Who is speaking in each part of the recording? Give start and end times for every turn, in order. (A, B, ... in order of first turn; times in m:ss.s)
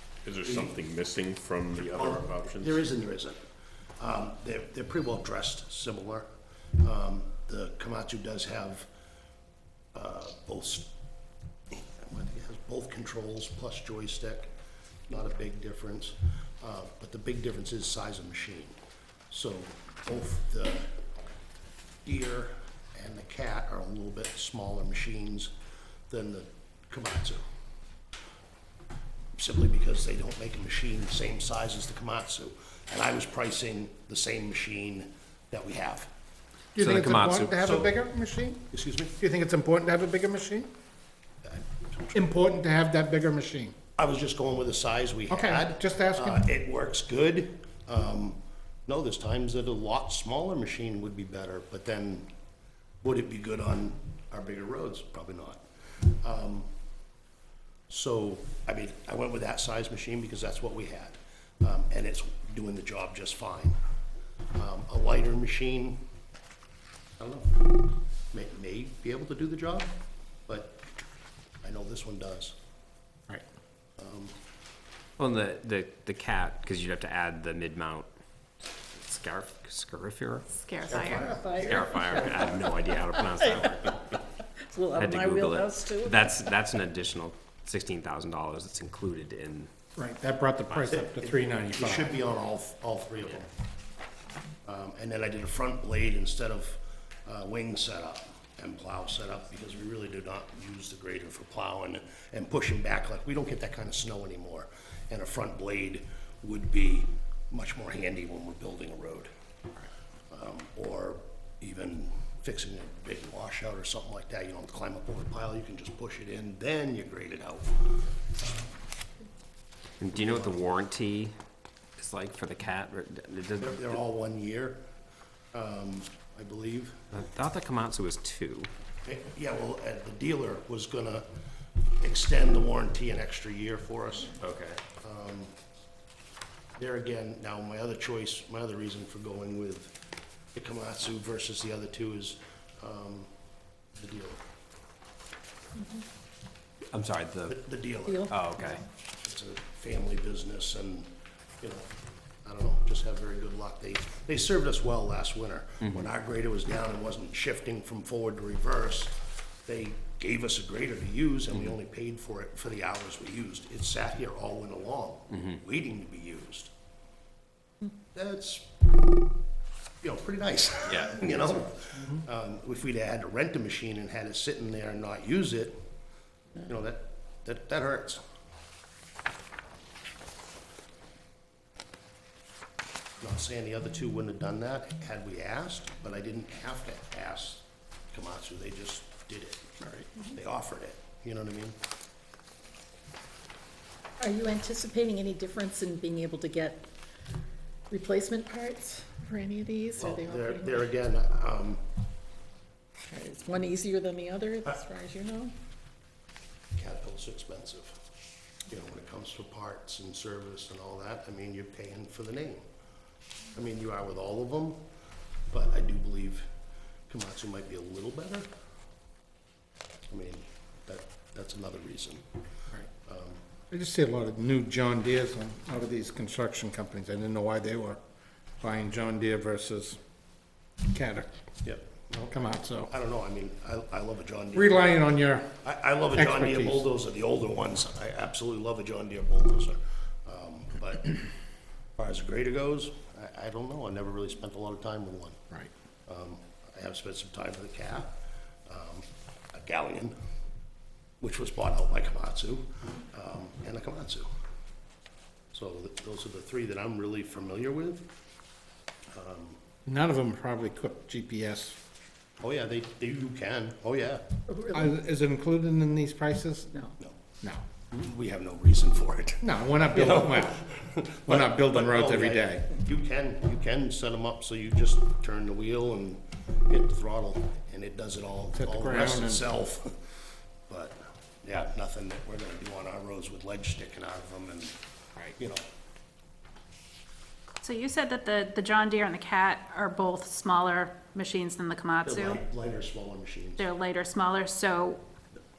0:00.2-0:02.8 A
0:00.4-0:00.8 B
0:01.7-0:03.4 B
0:04.0-0:06.3 B
0:06.8-0:08.9 B
0:09.9-0:10.9 B
0:11.7-0:14.5 B
0:15.1-0:18.8 B
0:19.3-0:20.9 B
0:22.0-0:25.5 B
0:26.1-0:27.4 B
0:29.4-0:36.1 B
0:36.7-0:38.6 C
0:36.8-0:37.5 D
0:37.6-0:38.0 B
0:38.7-0:39.2 B
0:39.2-0:40.7 C
0:41.4-0:42.2 B
0:42.1-0:43.7 C
0:44.0-0:52.3 B
0:45.3-0:46.4 C
0:53.0-0:56.7 B
0:57.9-1:03.7 B
1:04.5-1:06.0 B
1:07.2-1:07.6 B
1:08.3-1:09.9 B
1:10.5-1:10.8 B
1:11.6-1:12.6 B
1:14.0-1:14.3 B
1:15.2-1:18.1 D
1:18.9-1:20.5 D
1:20.5-1:21.3 E
1:20.8-1:21.7 B
1:20.9-1:24.0 F
1:21.6-1:24.2 D
1:24.6-1:26.5 F
1:24.9-1:29.7 D
1:30.0-1:32.2 C
1:30.9-1:33.5 B
1:34.6-1:49.3 B
1:50.3-1:58.7 B
2:00.0-2:01.3 D
2:00.1-2:00.8 B
2:02.0-2:04.0 D
2:03.6-2:04.8 B
2:05.5-2:07.1 B
2:07.1-2:08.7 D
2:09.0-2:11.2 B
2:12.0-2:14.4 B
2:14.4-2:14.8 D
2:15.0-2:15.5 B
2:16.8-2:19.9 B
2:20.5-2:23.3 B
2:24.0-2:24.4 B
2:26.9-2:27.6 D
2:27.5-2:28.3 B
2:28.1-2:28.8 F
2:28.3-2:28.8 D
2:29.2-2:31.1 B
2:31.6-2:31.9 B
2:32.4-2:46.7 B
2:48.1-2:48.7 B
2:50.0-2:55.8 B
2:50.9-2:51.4 D
2:56.6-2:58.2 B
3:03.2-3:11.8 B
3:14.2-3:16.9 F
3:17.9-3:20.9 F
3:20.0-3:21.8 B
3:23.1-3:25.5 F
3:26.7-3:27.9 B
3:28.7-3:32.6 B
3:33.5-3:34.8 B
3:35.5-3:36.5 B
3:37.1-3:38.5 B
3:40.1-3:42.2 B
3:43.0-3:43.4 B
3:43.7-3:48.0 C
3:48.6-3:50.0 C
3:50.9-3:51.3 C
3:51.6-3:55.0 B
3:52.3-3:52.9 C
3:54.5-3:55.6 C
3:55.6-4:01.2 B
3:56.1-3:56.8 C
4:02.0-4:05.4 B
4:06.1-4:10.1 B
4:11.2-4:14.3 B
4:15.5-4:18.1 B
4:19.1-4:19.6 B
4:19.8-4:21.8 C
4:22.4-4:24.2 B
4:24.5-4:24.9 F
4:24.7-4:27.6 C
4:27.9-4:39.9 B
4:29.4-4:30.7 C
4:31.2-4:32.6 C
4:38.6-4:39.5 C
4:40.7-4:44.8 B
4:45.4-4:45.6 B
4:47.6-4:52.4 E
4:52.0-4:53.7 B
4:53.6-4:55.0 E